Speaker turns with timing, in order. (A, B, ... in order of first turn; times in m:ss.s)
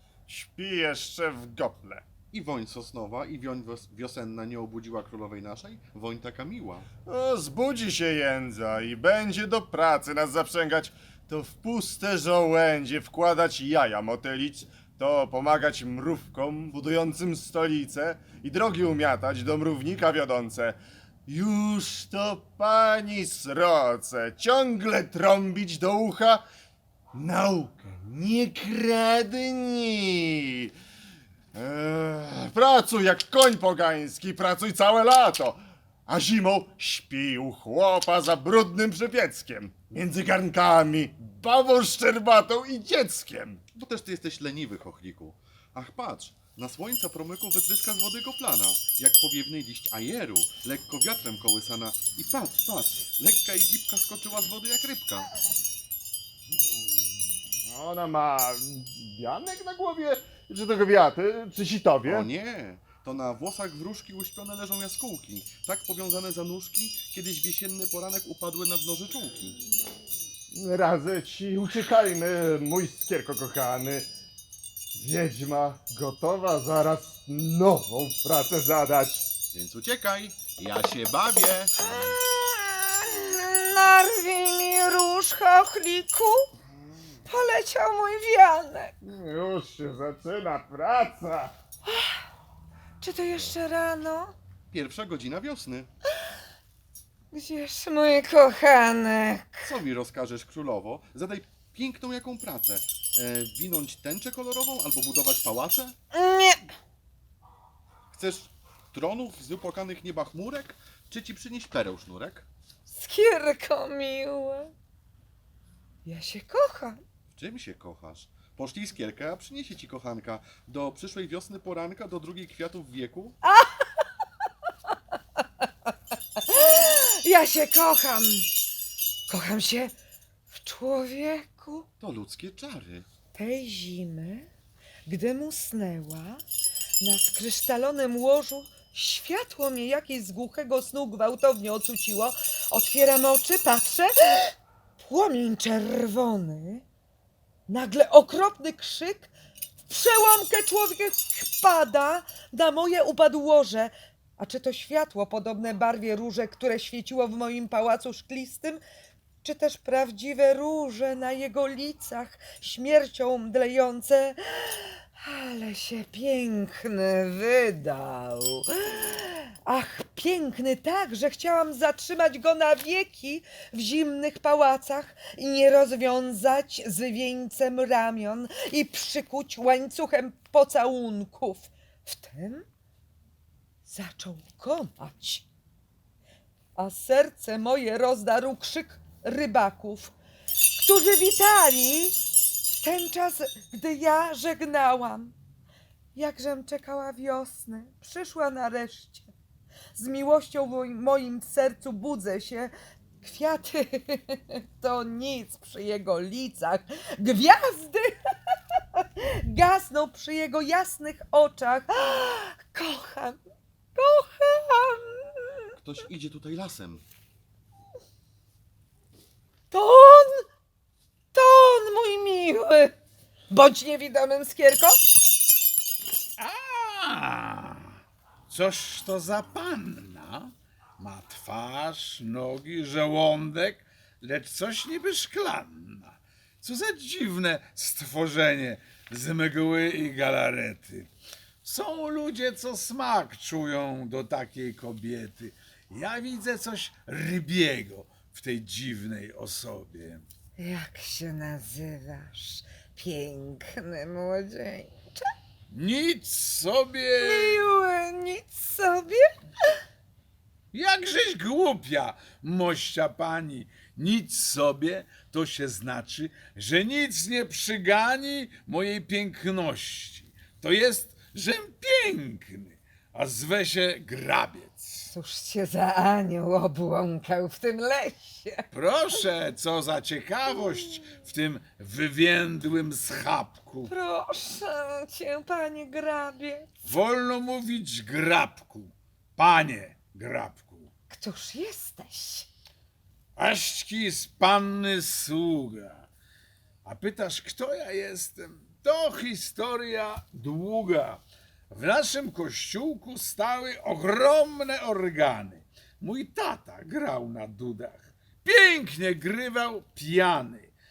0:00.3-0:02.0 A
0:02.3-0:06.9 B
0:07.0-0:26.4 A
0:27.1-0:30.7 A
0:31.5-0:43.6 A
0:43.7-0:55.3 B
0:57.7-1:02.3 A
1:02.0-1:09.6 B
1:10.5-1:14.1 A
1:14.9-1:19.3 A
1:19.5-1:22.1 B
1:21.8-1:26.5 C
1:27.2-1:28.9 C
1:29.0-1:31.5 A
1:31.8-1:32.2 C
1:33.0-1:34.3 C
1:34.7-1:35.9 B
1:37.3-1:39.7 C
1:39.6-1:46.0 B
1:46.1-1:46.7 C
1:48.1-1:52.5 B
1:52.9-1:54.7 C
1:56.0-1:57.0 C
1:57.3-2:03.4 B
2:03.4-2:03.8 C
2:06.4-2:08.5 C
2:09.3-2:09.9 C
2:10.5-2:11.8 C
2:12.0-2:13.1 B
2:13.3-2:14.5 C
2:15.0-2:16.4 C
2:17.0-2:26.8 C
2:27.7-2:29.3 C
2:29.8-2:38.8 C
2:39.4-3:02.6 C
3:03.8-3:05.5 C
3:06.8-3:10.1 C
3:10.7-3:15.3 C
3:16.1-3:19.3 C
3:19.9-3:33.4 C
3:33.9-3:35.7 C
3:35.8-3:37.0 B
3:39.7-3:40.4 C
3:41.3-3:42.9 C
3:43.5-3:45.0 C
3:46.4-3:48.0 D
3:48.5-4:01.1 D
4:01.6-4:10.2 D
4:10.6-4:15.2 C
4:15.7-4:17.7 D
4:17.2-4:19.2 C
4:20.7-4:35.1 D
4:35.1-4:38.7 C
4:38.7-4:43.9 D
4:43.9-4:46.7 C
4:46.8-4:50.9 D
4:51.1-4:52.5 C
4:53.4-4:56.1 D
4:56.8-5:10.7 D